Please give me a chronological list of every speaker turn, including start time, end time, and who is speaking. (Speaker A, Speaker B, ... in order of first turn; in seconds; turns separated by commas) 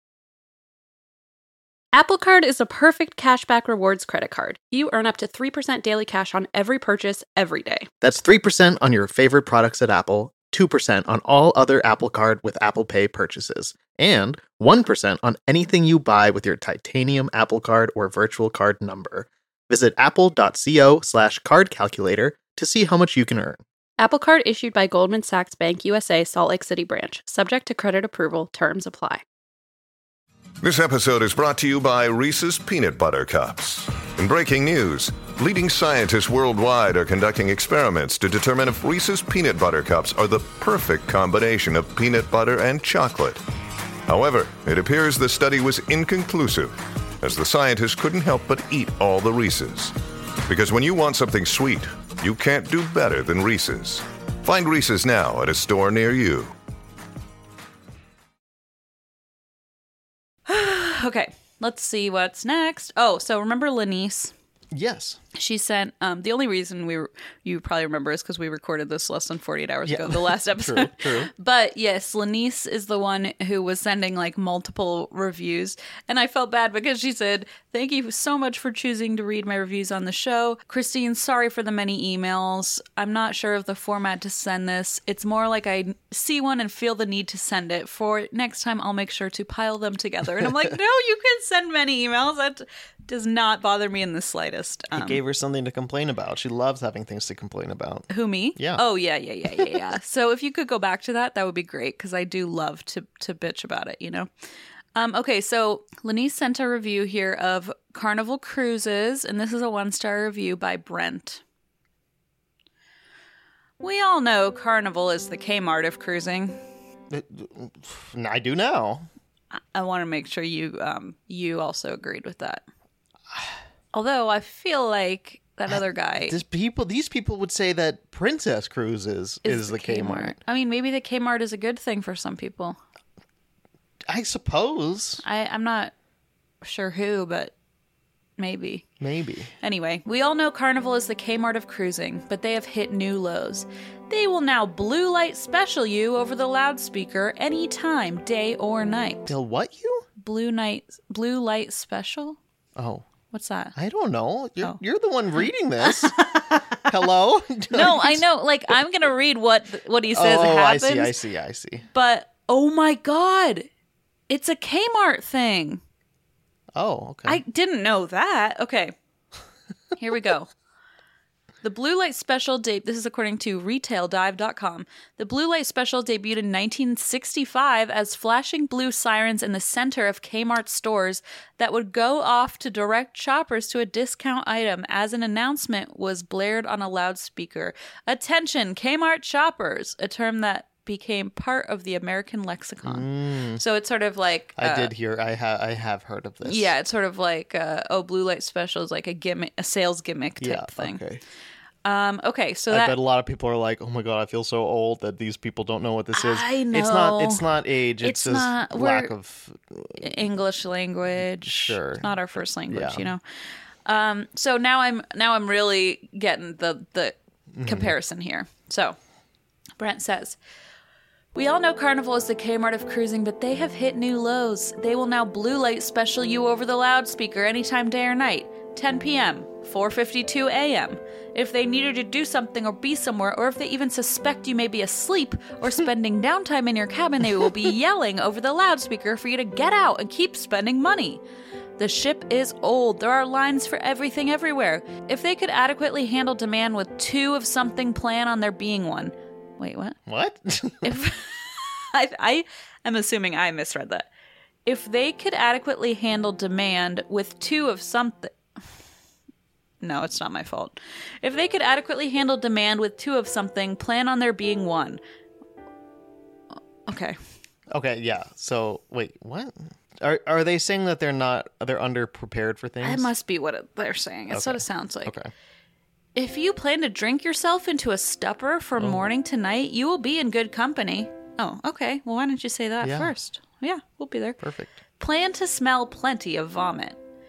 Speaker A: 1.9-7.9, Speaker B: 8.0-23.6, Speaker A: 24.0-29.2, Speaker C: 30.6-43.4, Speaker C: 44.1-49.9, Speaker C: 50.5-56.5, Speaker D: 60.5-64.3, Speaker B: 64.7-65.2, Speaker D: 65.3-95.2, Speaker B: 69.9-71.3, Speaker B: 94.9-98.8, Speaker D: 98.1-104.3, Speaker D: 105.0-111.4, Speaker D: 113.8-116.6, Speaker B: 117.1-119.1, Speaker D: 119.5-122.7, Speaker D: 123.9-126.4, Speaker B: 125.7-130.4, Speaker D: 129.4-132.8, Speaker B: 134.1-135.2, Speaker D: 135.2-135.9, Speaker D: 136.6-137.5, Speaker D: 138.4-138.9, Speaker B: 139.0-139.5, Speaker D: 139.6-149.3, Speaker B: 149.3-150.1, Speaker D: 150.2-152.4, Speaker B: 152.8-153.1, Speaker D: 153.3-153.8, Speaker B: 153.8-156.3, Speaker D: 155.9-156.8, Speaker B: 156.8-158.2, Speaker D: 157.7-161.2, Speaker B: 160.1-161.9, Speaker D: 161.9-163.7, Speaker D: 164.3-165.8, Speaker B: 166.8-167.4, Speaker D: 167.3-168.9, Speaker D: 170.0-170.5, Speaker D: 171.6-194.9, Speaker B: 192.8-193.6, Speaker B: 194.6-196.7, Speaker D: 196.4-201.0, Speaker B: 200.4-201.2, Speaker D: 201.8-203.0, Speaker B: 202.7-210.1, Speaker D: 206.1-207.5, Speaker D: 208.0-209.1, Speaker D: 210.0-213.2, Speaker B: 211.4-212.1, Speaker B: 212.7-213.1, Speaker D: 213.8-219.0, Speaker B: 217.5-217.9, Speaker D: 219.8-220.4, Speaker D: 221.3-241.2, Speaker D: 241.8-250.0, Speaker B: 250.1-251.0, Speaker D: 250.8-254.1, Speaker D: 254.7-258.4, Speaker D: 259.8-265.0, Speaker D: 266.9-267.2, Speaker B: 267.7-273.1, Speaker D: 272.8-275.1, Speaker B: 274.3-275.3, Speaker D: 276.1-284.4, Speaker B: 278.8-279.1, Speaker B: 282.8-283.1, Speaker B: 284.4-284.8, Speaker D: 285.0-287.0